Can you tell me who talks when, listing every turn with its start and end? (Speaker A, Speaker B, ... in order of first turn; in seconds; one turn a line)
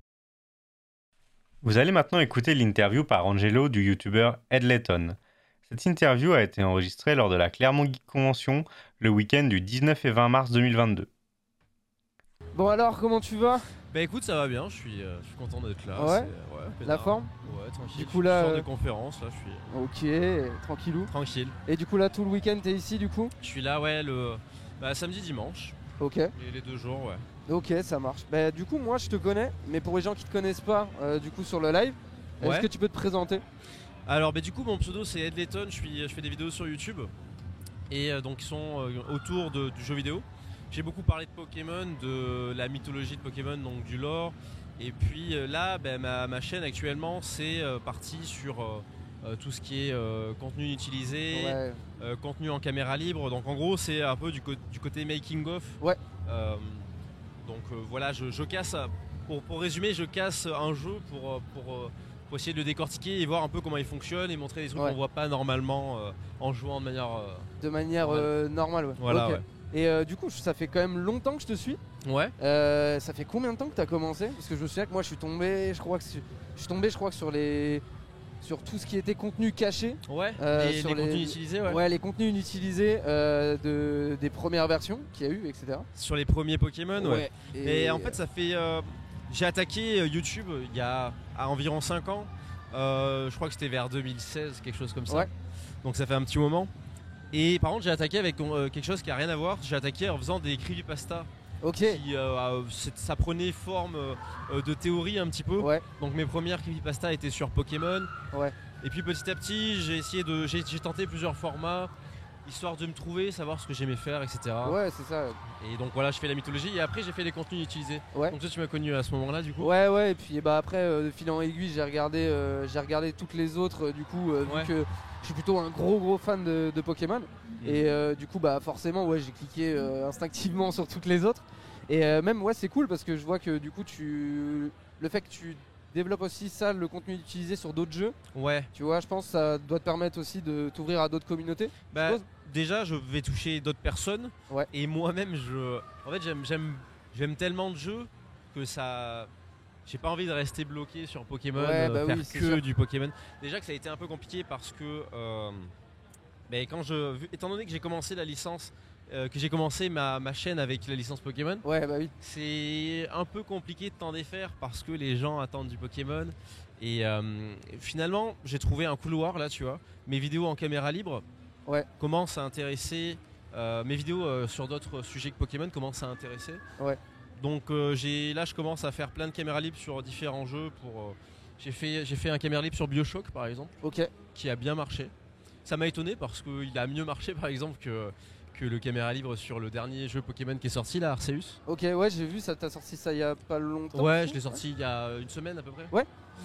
Speaker A: 1.6-11.1
Speaker B: 12.5-13.7
Speaker C: 13.9-19.7
Speaker B: 15.9-16.3
Speaker B: 16.9-17.3
Speaker B: 17.9-18.7
Speaker B: 19.7-21.1
Speaker C: 21.1-21.6
Speaker B: 21.7-23.3
Speaker C: 23.4-25.8
Speaker B: 26.0-26.3
Speaker C: 26.4-27.2
Speaker B: 27.5-33.4
Speaker C: 32.4-32.7
Speaker C: 34.1-37.1
Speaker C: 37.9-56.9
Speaker B: 51.3-51.8
Speaker C: 57.4-67.5
Speaker B: 67.6-71.8
Speaker C: 68.0-68.3
Speaker C: 69.0-69.4
Speaker C: 72.0-72.3
Speaker B: 72.4-77.8
Speaker B: 78.4-85.9
Speaker C: 80.1-81.8
Speaker C: 86.0-95.3
Speaker B: 87.0-88.2
Speaker C: 95.8-96.7
Speaker C: 97.3-101.3
Speaker B: 101.6-102.0
Speaker C: 101.8-108.1
Speaker B: 105.6-105.8
Speaker C: 108.8-111.9
Speaker C: 112.5-114.8
Speaker B: 114.6-115.4
Speaker C: 115.5-119.7
Speaker B: 119.6-138.2
Speaker C: 124.5-124.7
Speaker C: 138.3-138.7
Speaker B: 138.7-142.2
Speaker C: 141.9-149.3
Speaker C: 149.9-155.7
Speaker B: 151.6-152.6
Speaker C: 156.5-161.7
Speaker B: 161.6-162.1
Speaker C: 162.2-171.2
Speaker C: 172.0-176.6
Speaker C: 177.4-183.8
Speaker B: 183.8-184.1
Speaker C: 184.3-185.1
Speaker C: 185.7-191.6
Speaker B: 191.7-194.6
Speaker C: 193.9-195.9